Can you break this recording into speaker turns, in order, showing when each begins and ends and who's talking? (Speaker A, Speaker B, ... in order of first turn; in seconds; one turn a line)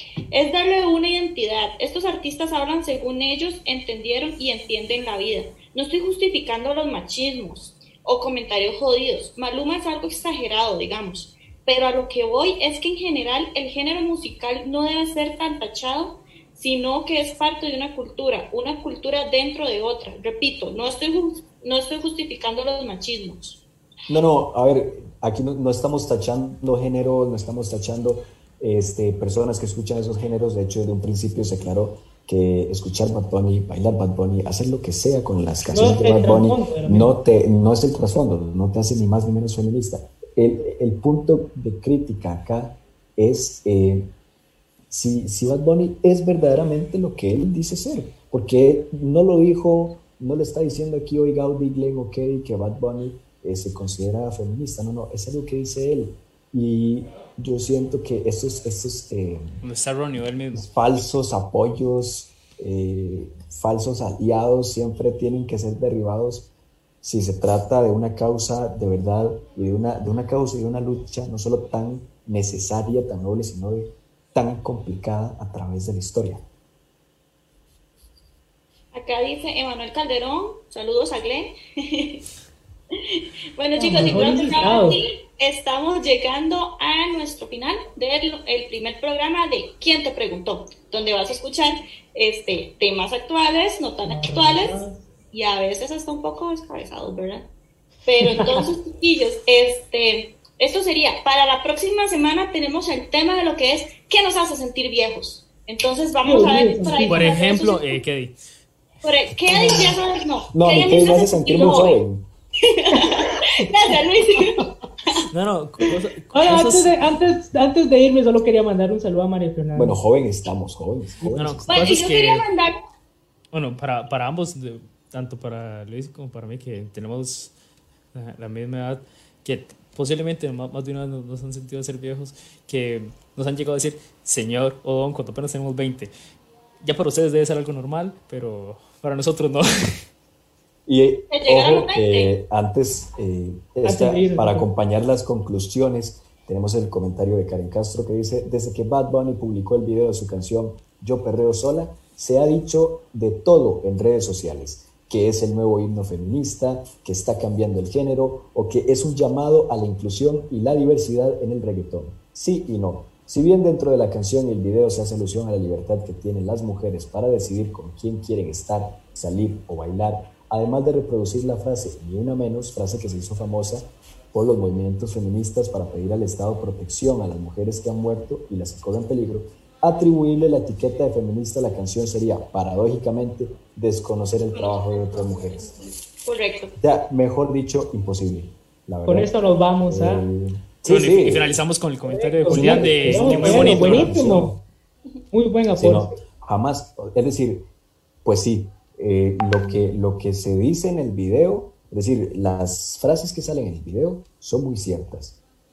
Speaker A: 0.3-23.6
Speaker B: 24.1-44.1
Speaker C: 35.7-37.2
Speaker B: 44.9-59.6
Speaker D: 59.6-60.7
Speaker B: 60.5-66.5
Speaker B: 67.0-76.4
Speaker A: 78.9-82.2
Speaker A: 82.9-94.8
Speaker C: 83.8-85.0
Speaker C: 94.0-95.0
Speaker A: 95.3-97.5
Speaker A: 98.0-108.0
Speaker C: 98.2-98.6
Speaker C: 106.2-107.3
Speaker D: 107.0-108.3
Speaker A: 109.0-112.0
Speaker C: 109.5-110.0
Speaker B: 110.5-112.2
Speaker A: 112.6-115.2
Speaker C: 112.9-113.8
Speaker C: 114.4-114.7
Speaker D: 115.3-117.0
Speaker C: 116.3-120.0
Speaker B: 119.7-121.9
Speaker D: 121.3-122.5
Speaker A: 121.7-122.8
Speaker D: 123.5-127.5
Speaker D: 128.1-136.1
Speaker D: 136.8-140.0
Speaker B: 140.8-185.7
Speaker A: 141.3-142.3
Speaker C: 143.8-144.7
Speaker A: 184.5-186.7
Speaker B: 186.8-189.3
Speaker C: 189.0-190.3
Speaker B: 189.9-191.6
Speaker D: 190.8-194.2
Speaker C: 192.1-194.5
Speaker B: 192.5-194.6
Speaker C: 195.3-196.2
Speaker B: 195.7-197.6
Speaker B: 198.2-205.4